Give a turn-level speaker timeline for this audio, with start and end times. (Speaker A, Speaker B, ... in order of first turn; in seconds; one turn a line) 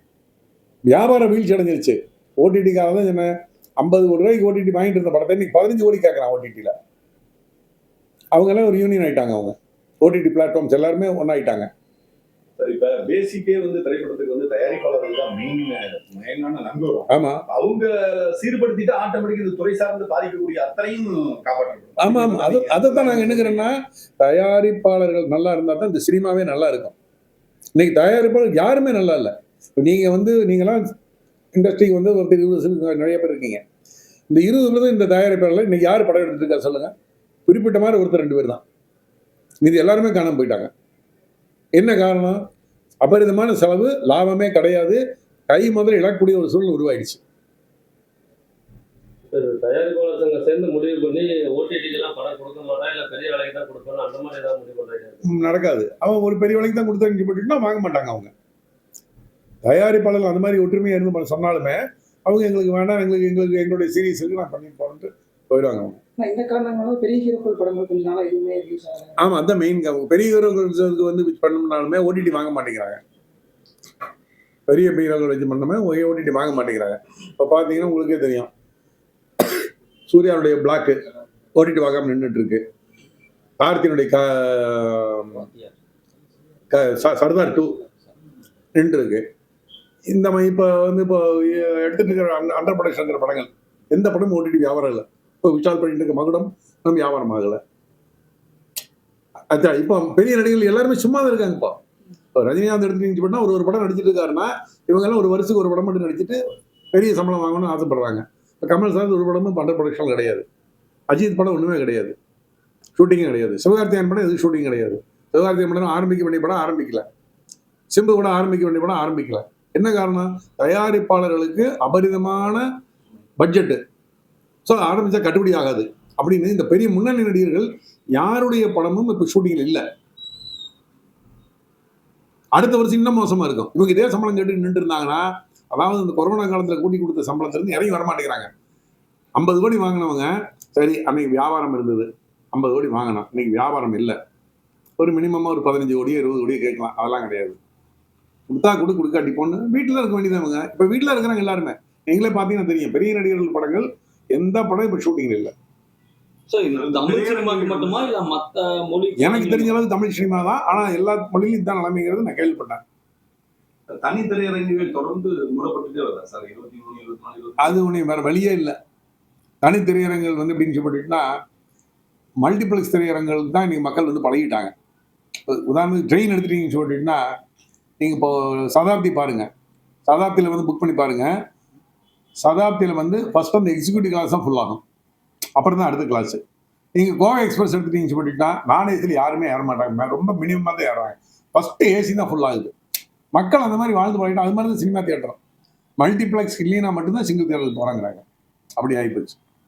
Speaker A: 0.9-6.7
Speaker A: 8.3-11.7
Speaker B: 12.6-23.7
Speaker A: 17.1-17.4
Speaker A: 22.0-26.9
Speaker A: 27.8-30.9
Speaker A: 31.5-33.6
Speaker A: 34.3-36.9
Speaker A: 37.5-38.6
Speaker A: 39.6-40.7
Speaker A: 41.8-42.4
Speaker A: 43.0-47.2
Speaker C: 49.3-55.2
Speaker A: 55.2-58.3
Speaker A: 59.6-66.0
Speaker D: 66.2-69.2
Speaker A: 69.2-73.0
Speaker A: 74.7-78.5
Speaker A: 80.1-81.0
Speaker A: 81.5-82.6
Speaker A: 83.6-85.5
Speaker A: 86.7-87.8
Speaker A: 88.8-89.2
Speaker A: 90.1-97.6
Speaker A: 99.5-101.8
Speaker A: 102.3-106.4
Speaker A: 106.9-110.4
Speaker A: 111.1-112.1
Speaker A: 113.0-117.0
Speaker A: 117.9-122.6
Speaker A: 123.4-123.8
Speaker A: 124.7-129.8
Speaker A: 132.5-138.5
Speaker A: 139.3-144.2
Speaker A: 145.0-147.6
Speaker A: 148.5-155.5
Speaker E: 156.5-159.7
Speaker B: 156.7-158.1
Speaker A: 159.2-162.8
Speaker B: 163.9-167.8
Speaker A: 167.6-168.8
Speaker A: 169.6-171.3
Speaker A: 172.4-174.7
Speaker A: 175.5-177.2
Speaker A: 178.0-179.5
Speaker A: 180.1-181.3
Speaker A: 182.4-184.8
Speaker A: 185.6-186.4
Speaker A: 186.9-192.7
Speaker A: 193.3-195.4
Speaker A: 196.0-198.2
Speaker A: 198.8-199.4